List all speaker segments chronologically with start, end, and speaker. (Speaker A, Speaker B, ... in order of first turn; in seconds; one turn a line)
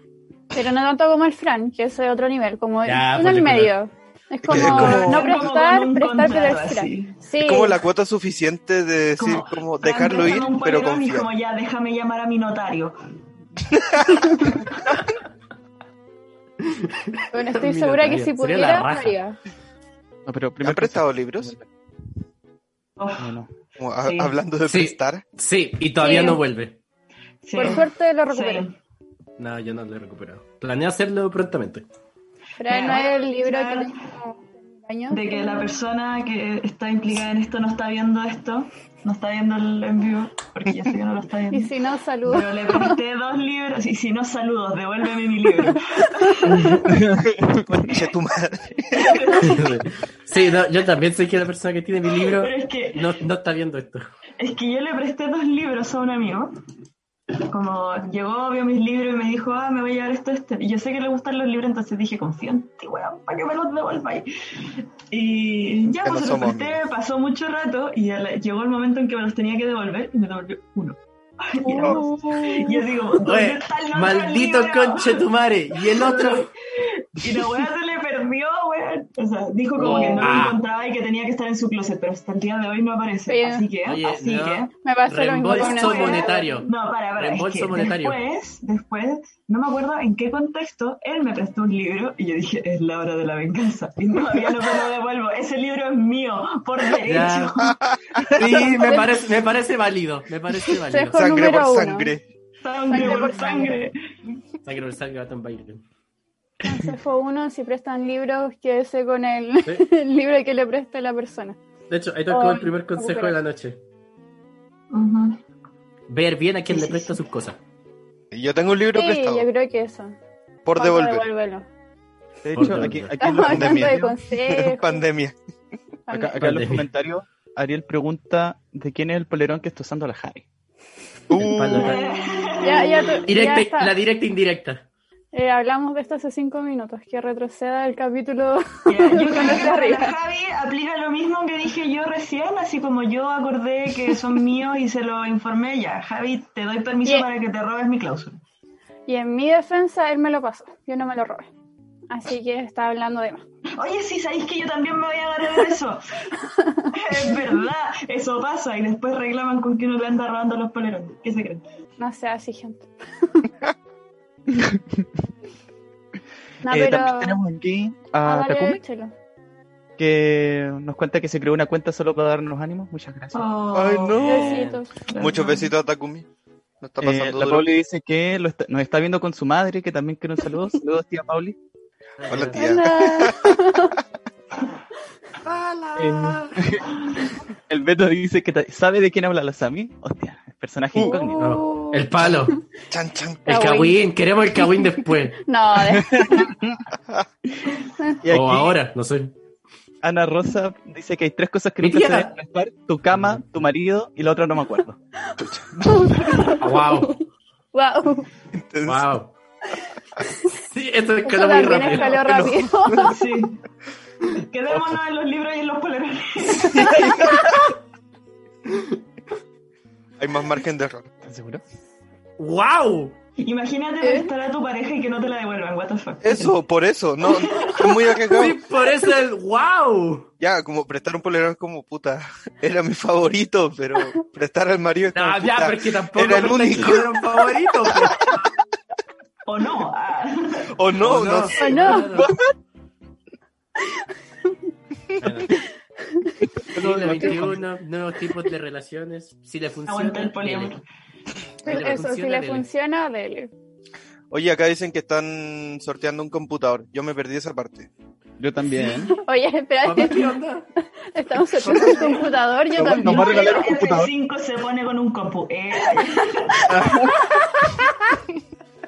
Speaker A: 0.5-7.8
Speaker B: 2.9-3.7
Speaker C: 4.4-5.4
Speaker B: 4.5-5.0
Speaker D: 4.6-7.2
Speaker C: 7.4-11.3
Speaker D: 9.2-13.0
Speaker C: 13.7-14.3
Speaker B: 16.6-19.2
Speaker A: 17.3-19.4
Speaker E: 20.3-21.7
Speaker C: 20.6-21.5
Speaker D: 23.0-23.4
Speaker E: 23.2-23.5
Speaker C: 23.8-25.2
Speaker D: 24.0-24.4
Speaker B: 24.7-26.8
Speaker A: 26.0-26.4
Speaker D: 27.4-28.8
Speaker A: 27.6-28.7
Speaker B: 29.4-31.9
Speaker A: 32.6-35.8
Speaker D: 32.7-34.0
Speaker D: 35.1-41.7
Speaker A: 41.5-43.0
Speaker D: 42.2-47.0
Speaker A: 46.0-46.9
Speaker E: 46.7-47.8
Speaker C: 47.6-49.2
Speaker D: 49.0-49.8
Speaker B: 49.4-54.0
Speaker D: 52.1-53.1
Speaker D: 54.4-56.5
Speaker D: 57.3-75.2
Speaker C: 66.0-66.8
Speaker A: 71.6-72.9
Speaker B: 73.2-76.5
Speaker D: 75.8-84.7
Speaker B: 79.8-80.6
Speaker A: 79.8-80.4
Speaker A: 83.3-83.7
Speaker B: 83.8-88.2
Speaker A: 84.8-86.7
Speaker D: 85.5-99.0
Speaker B: 97.0-97.5
Speaker B: 98.3-101.3
Speaker A: 98.8-99.1
Speaker A: 100.9-102.1
Speaker C: 101.1-102.2
Speaker D: 102.6-104.0
Speaker A: 102.9-103.8
Speaker B: 104.7-105.8
Speaker A: 106.6-111.6
Speaker B: 111.9-113.8
Speaker A: 112.3-113.4
Speaker D: 114.9-115.4
Speaker B: 116.1-117.6
Speaker D: 116.7-117.2
Speaker C: 118.3-119.5
Speaker A: 118.9-120.2
Speaker C: 120.7-121.3
Speaker A: 120.8-121.7
Speaker E: 122.4-124.1
Speaker B: 122.5-123.1
Speaker A: 123.2-125.0
Speaker C: 123.4-125.4
Speaker A: 126.1-126.4
Speaker E: 126.1-130.4
Speaker B: 126.4-126.9
Speaker C: 131.3-132.0
Speaker B: 131.3-132.7
Speaker D: 131.7-133.3
Speaker A: 132.6-133.9
Speaker B: 133.3-134.8
Speaker A: 135.3-140.1
Speaker D: 138.9-148.4
Speaker A: 149.1-151.5
Speaker A: 152.1-153.4
Speaker D: 153.8-156.0
Speaker A: 156.5-156.9
Speaker D: 156.9-161.6
Speaker A: 162.0-163.5
Speaker E: 164.5-165.0
Speaker A: 166.6-167.4
Speaker E: 166.7-168.8
Speaker A: 168.2-169.1
Speaker E: 170.0-173.5
Speaker D: 173.3-174.4
Speaker C: 173.7-176.3
Speaker B: 174.2-174.8
Speaker A: 174.2-174.9
Speaker D: 175.1-175.7
Speaker C: 176.8-177.7
Speaker E: 177.0-181.6
Speaker B: 182.2-182.7
Speaker C: 182.3-183.9
Speaker A: 182.6-184.0
Speaker C: 185.5-186.1
Speaker B: 185.5-186.6
Speaker E: 186.0-186.9
Speaker E: 187.7-191.4
Speaker A: 191.0-192.1
Speaker B: 191.4-192.6
Speaker C: 192.9-193.5
Speaker A: 193.5-194.0
Speaker B: 193.5-195.4
Speaker A: 195.4-196.5
Speaker E: 195.8-196.8
Speaker E: 198.2-198.8
Speaker B: 198.3-199.3
Speaker E: 200.0-205.0
Speaker B: 201.8-202.3
Speaker B: 203.1-203.4
Speaker C: 205.4-206.2
Speaker A: 205.9-208.3
Speaker B: 206.6-207.2
Speaker C: 208.5-209.1
Speaker B: 208.9-209.3
Speaker B: 210.6-212.2
Speaker A: 211.2-213.2
Speaker D: 211.7-212.0
Speaker C: 212.0-213.2
Speaker D: 213.0-213.6
Speaker D: 214.3-217.4
Speaker A: 216.7-217.5
Speaker C: 216.8-217.5
Speaker C: 220.2-221.2
Speaker E: 221.2-221.6
Speaker B: 222.4-223.2
Speaker D: 223.4-226.6
Speaker A: 224.0-224.3
Speaker C: 226.2-228.6
Speaker D: 227.2-228.2
Speaker B: 228.3-230.3
Speaker C: 230.4-237.2
Speaker B: 235.1-238.4
Speaker D: 239.5-240.7
Speaker C: 240.7-242.0
Speaker B: 241.0-242.3
Speaker A: 241.6-242.1
Speaker E: 242.1-242.5
Speaker B: 245.2-245.6
Speaker E: 246.4-247.6
Speaker B: 246.7-250.7
Speaker D: 249.9-250.8
Speaker B: 251.6-252.7
Speaker A: 251.6-253.5
Speaker C: 254.3-257.9
Speaker E: 258.4-259.1
Speaker A: 259.0-263.7
Speaker B: 259.8-260.7
Speaker C: 261.6-262.2
Speaker E: 262.7-264.1
Speaker D: 263.0-266.7
Speaker E: 266.7-267.1
Speaker A: 267.3-267.8